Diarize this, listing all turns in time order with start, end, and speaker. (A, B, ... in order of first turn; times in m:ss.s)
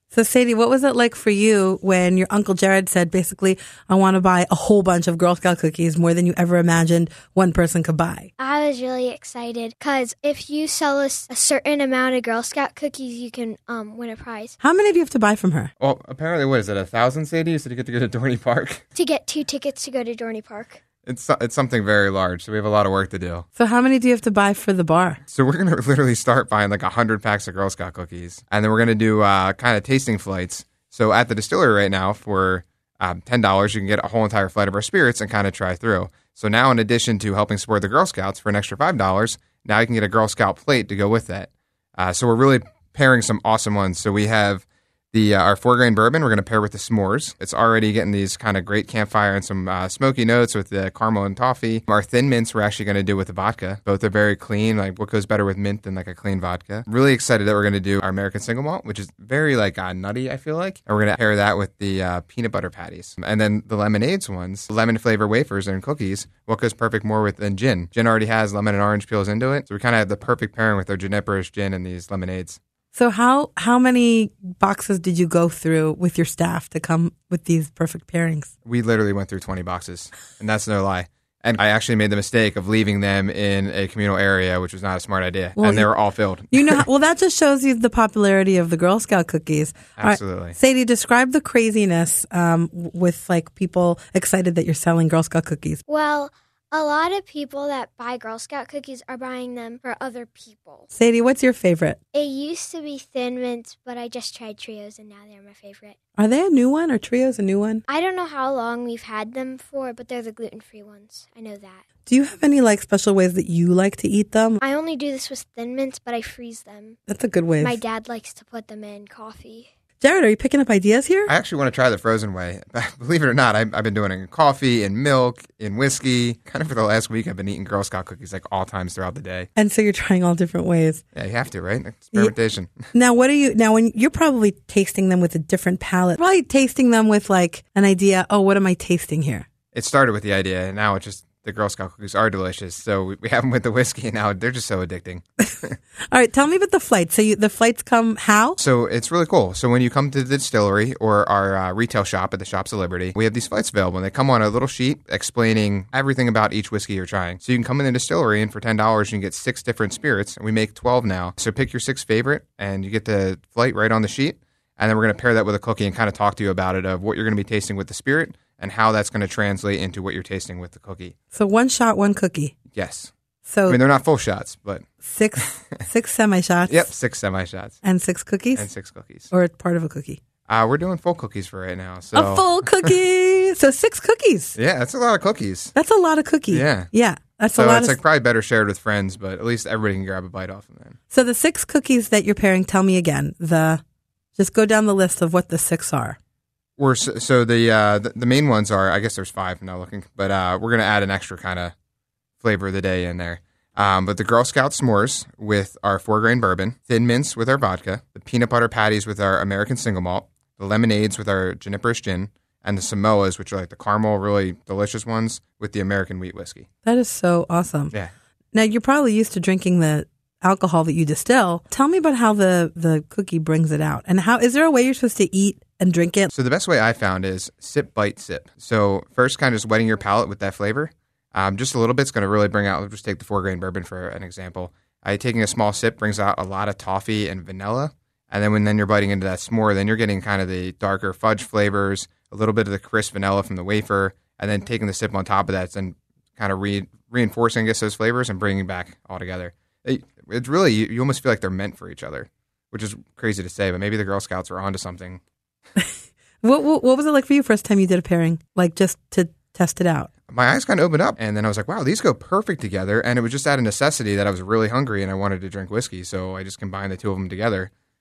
0:00.1-0:08.3 A
0:08.4-0:14.6 B
0:14.6-0:15.7 A
0:15.8-0:18.8 C
0:18.9-0:20.8 B
0:21.0-0:23.5 C
0:23.6-0:25.2 A
0:25.3-1:12.6 C
1:12.9-1:18.5 A
1:18.6-1:26.8 C
1:25.6-1:25.9 A
1:26.5-1:35.8 A
1:30.0-1:30.6 C
1:35.9-1:40.9 B
1:40.9-1:42.0 A
1:42.1-1:46.0 B
1:46.2-1:47.8 A
1:47.9-1:51.8 B
1:52.0-1:54.6 A
1:54.6-1:57.0 B
1:57.1-1:57.8 A
1:57.6-1:59.7 B
2:00.0-2:01.3 A
2:01.3-2:09.5 C
2:09.6-2:11.0 A
2:11.1-2:12.8 C
2:12.9-2:19.4 A
2:19.7-2:25.7 C
2:26.1-2:28.6 A
2:28.6-2:51.1 C
2:51.3-2:52.5 A
2:52.7-2:53.1 C
2:53.4-2:53.8 A
2:53.7-2:54.8 C
2:55.0-2:56.9 A
2:55.4-2:55.8 C
2:56.7-2:57.8 C
2:57.8-2:58.7 A
2:58.5-2:59.3 C
2:59.3-3:00.2 A
3:00.5-3:03.0 C
3:02.1-3:04.6 A
3:04.5-3:05.7 C
3:05.7-3:08.0 A
3:06.5-3:06.9 C
3:07.5-3:11.0 C
3:11.1-3:13.8 A
3:14.4-3:16.2 A
3:16.8-3:21.7 C
3:22.4-3:36.7 C
3:36.8-3:37.9 A
3:38.5-3:46.3 A
3:46.3-4:15.2 C
4:16.4-4:20.1 A
4:20.3-4:27.7 C